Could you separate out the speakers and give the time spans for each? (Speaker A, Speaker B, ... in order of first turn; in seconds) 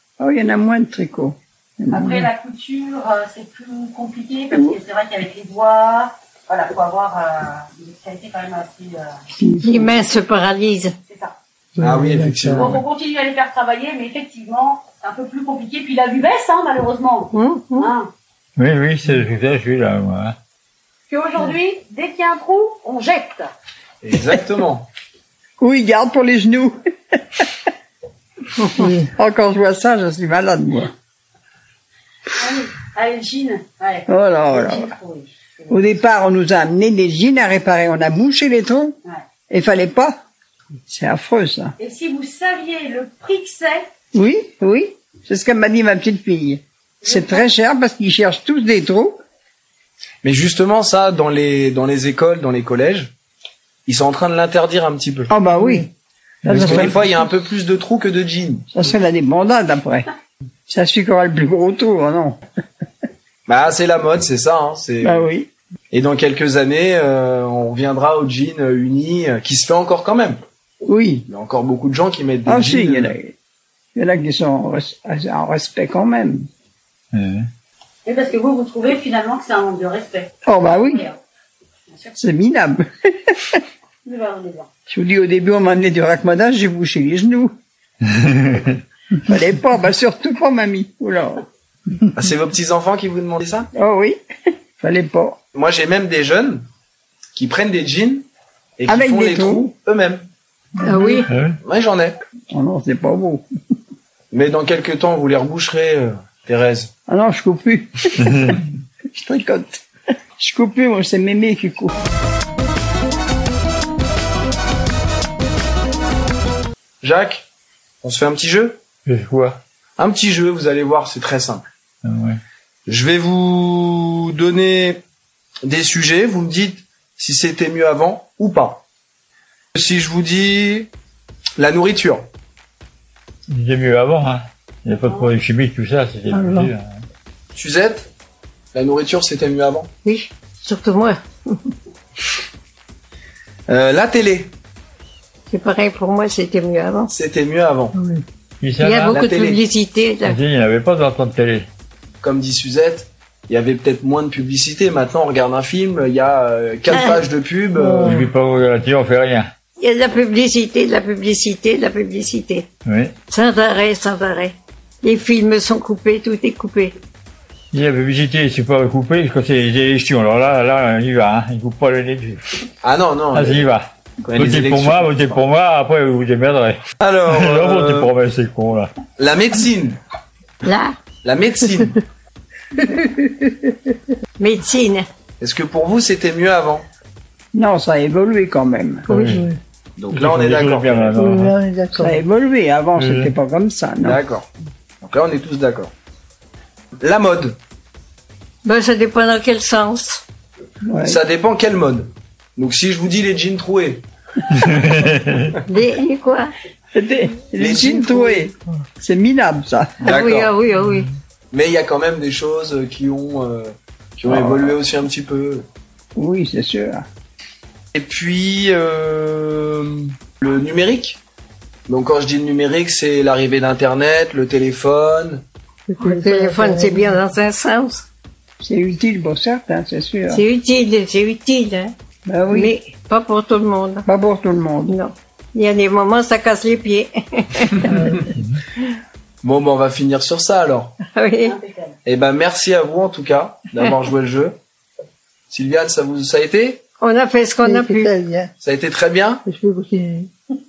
Speaker A: 0.2-2.2, 9.3-10.0, 25.6-26.8, 29.0-30.9, 34.1-34.9, 35.7-38.9, 39.5-40.2, 40.9-41.7, 44.1-49.2, 55.3-55.9, 56.4-57.2, 58.7-60.1, 60.7-62.4, 65.0-65.5, 70.8-71.3, 72.5-73.3, 74.0-76.5, 80.5-81.1, 82.2-83.6, 84.9-87.5, 89.2-91.5, 93.8-94.2, 94.8-95.4, 98.9-99.7, 102.5-103.5, 107.1-108.6, 109.1-109.8, 110.4-112.0, 187.5-189.1, 191.9-194.2, 200.8-201.2, 206.9-210.1, 214.3-214.7, 216.2-217.0, 228.6-230.4, 232.3-232.7, 234.1-234.9
Speaker B: 1.9-9.2, 11.1-11.3, 12.5-18.1, 21.1-23.5, 32.3-35.9, 41.8-43.9, 47.0-47.5, 78.0-81.2, 84.0-84.7, 241.4-242.0
Speaker C: 9.6-10.9, 17.3-17.9, 100.8-101.3, 140.0-141.6, 145.5-147.1, 148.8-150.4, 156.9-157.2, 159.8-162.7, 163.3-167.0, 180.7-181.0, 184.4-185.1, 189.1-189.4, 198.7-200.2, 205.7-206.5, 210.0-211.1, 226.0-228.1, 230.3-231.9, 232.5-234.1, 234.9-237.9, 241.0-241.6, 247.0-248.1
Speaker D: 11.8-12.7, 28.6-29.1, 55.5-55.9, 100.8-101.2, 136.3-136.7, 147.9-148.2, 157.8-158.3, 182.9-183.7, 189.1-189.6, 191.2-192.2, 225.9-227.2, 237.8-238.4, 247.6-248.5, 249.4-250.3
Speaker E: 11.8-12.8, 24.0-24.9, 50.2-53.1, 53.9-55.3, 56.5-58.7, 63.5-65.3, 65.9-70.4, 71.3-73.2, 92.2-93.7, 95.5-96.7, 97.3-98.3, 98.8-100.3, 101.6-102.2, 104.3-106.9, 117.0-117.5, 118.0-118.8, 120.0-121.7, 122.9-125.0, 125.6-128.8, 129.8-130.9, 131.6-132.3, 137.5-138.1, 138.7-139.9, 143.7-144.5, 147.1-147.9, 149.1-149.7, 152.2-158.3, 172.8-173.7, 174.2-175.4, 177.0-178.1, 179.2-180.0, 181.2-182.0, 185.4-186.9, 190.0-191.2, 194.0-194.5, 195.0-195.9, 197.0-197.6, 201.0-204.0, 207.6-208.5, 210.0-210.5, 211.5-215.7, 217.9-221.2, 221.9-225.4, 239.4-241.0, 242.1-244.6, 245.5-246.8, 248.6-249.4
Speaker F: 18.6-20.4, 56.5-56.9, 77.1-77.5, 88.0-88.8, 101.3-101.6, 108.2-108.6, 119.0-119.6, 122.0-122.4, 133.5-136.9, 148.6-149.2, 150.2-151.7, 158.0-159.5, 162.8-163.2, 167.7-172.6, 173.3-178.9, 189.1-189.4, 190.1-191.6, 193.0-193.3, 204.5-205.6